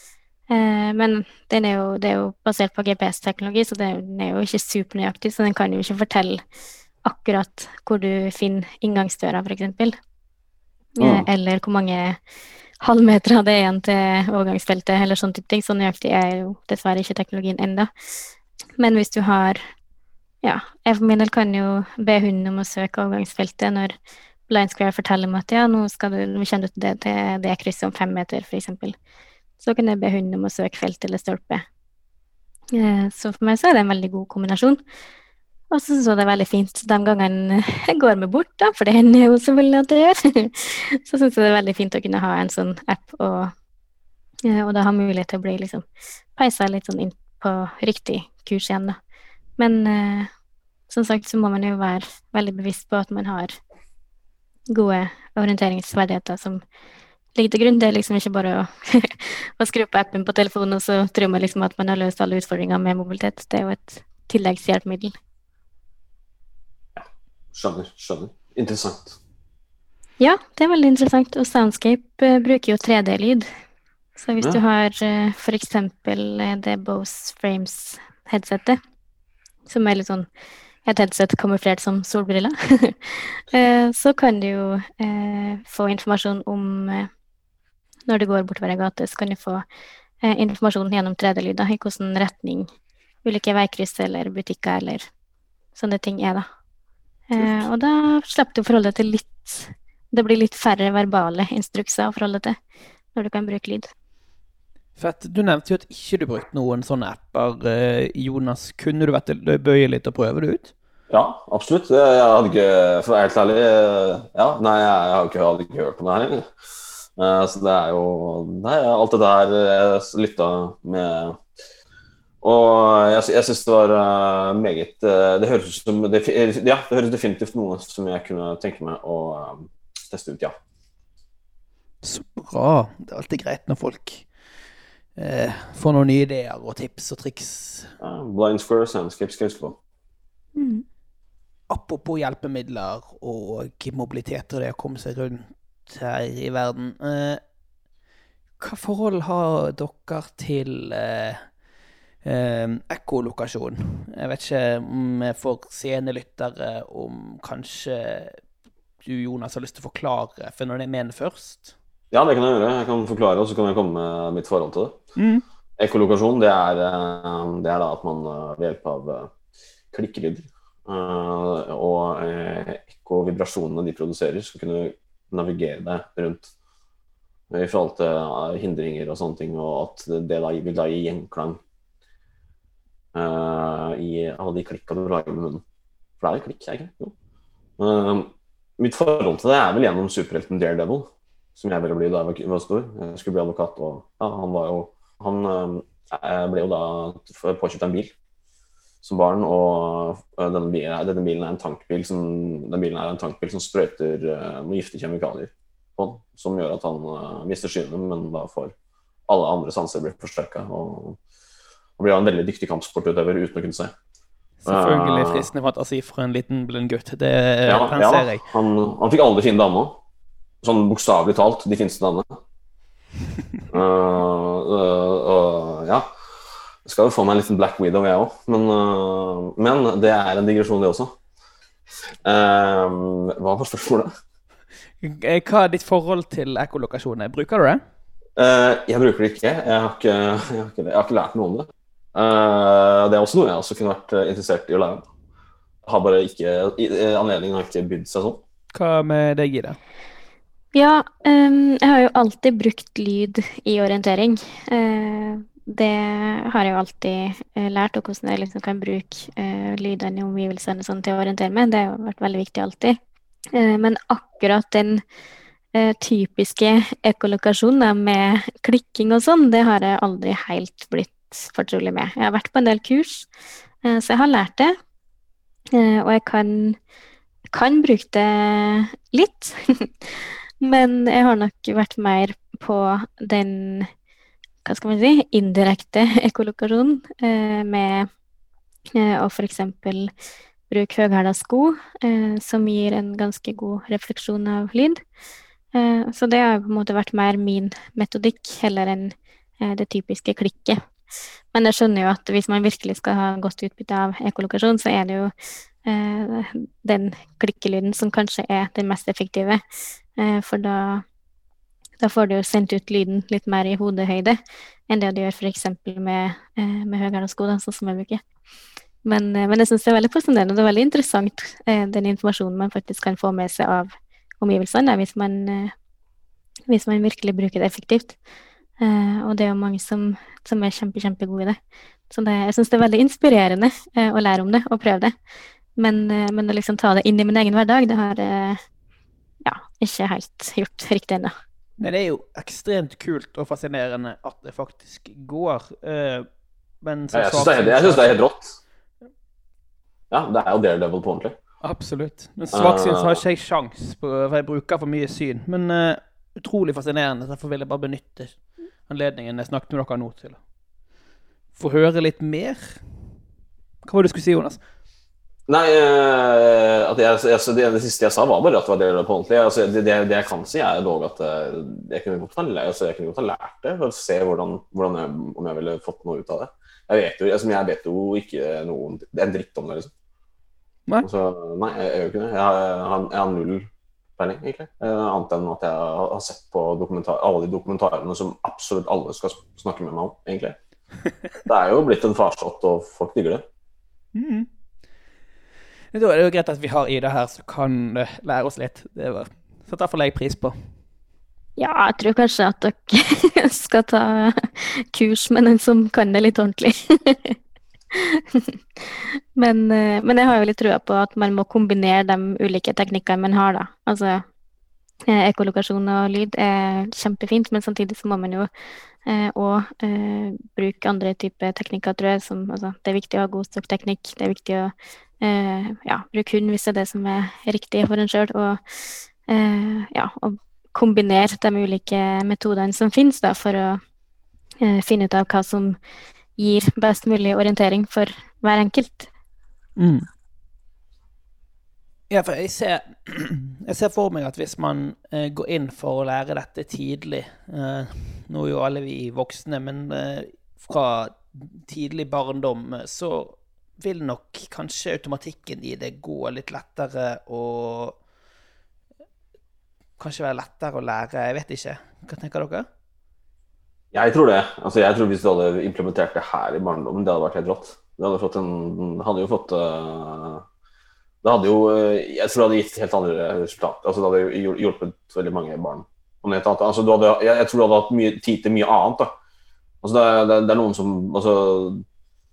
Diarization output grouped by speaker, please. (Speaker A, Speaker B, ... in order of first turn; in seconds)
Speaker A: 0.5-6.4, 7.0-10.0, 11.0-12.2, 12.8-17.9, 18.8-19.6, 20.4-23.9, 24.5-28.9, 29.6-31.6, 32.7-34.8, 35.7-43.5, 44.5-45.8, 46.4-49.0, 49.6-50.3, 50.9-53.5, 54.7-56.6, 57.3-65.1, 70.2-73.5, 74.2-78.8, 79.7-80.3, 80.8-87.1, 88.1-89.6, 90.2-92.7, 93.2-95.1, 95.7-96.4, 97.3-102.6, 103.1-103.9, 140.6-140.8, 250.7-263.0, 263.5-265.0, 265.7-273.3, 273.8-274.7, 275.7-276.8, 277.5-283.9, 284.6-288.1, 288.9-290.1, 290.7-295.0, 295.7-300.8, 301.5-305.3, 305.8-309.6, 310.2-311.0, 312.0-314.4, 314.9-318.2, 319.0-325.7, 326.7-328.2, 328.8-331.6, 332.1-335.1, 335.8-338.6, 339.4-341.3, 401.6-407.4, 407.9-414.2, 415.1-418.5, 419.0-428.6, 429.2-433.8, 434.6-435.8, 436.4-439.1
Speaker B: 11.0-11.2, 67.0-69.2, 111.1-116.5, 117.2-121.4, 122.4-130.6, 138.0-139.8, 162.1-165.0, 165.8-169.3, 169.9-176.5, 177.5-181.6, 183.1-185.6, 186.2-187.1, 187.8-198.1, 199.0-208.7, 209.3-211.2, 212.0-213.9, 214.7-215.5, 217.7-220.0, 220.6-222.4, 223.7-226.1, 226.8-231.2, 232.2-234.1, 238.4-245.0, 245.8-248.4, 347.1-348.6, 350.1-351.4, 352.5-353.2, 365.5-379.9, 381.0-383.7, 384.2-390.6, 391.4-393.4, 463.9-470.4, 471.2-479.1, 479.8-481.8
Speaker C: 97.4-97.6, 105.0-110.7, 132.0-134.3, 135.2-137.9, 141.7-147.4, 148.6-151.4, 152.2-158.4, 159.0-161.7, 165.2-165.4, 214.6-218.4, 235.0-237.8, 248.7-249.8, 341.8-346.2, 346.8-348.2, 351.6-360.4, 361.5-362.8, 363.8-364.6, 394.1-394.5, 395.9-400.6, 439.8-440.1, 442.1-458.0, 460.0-462.6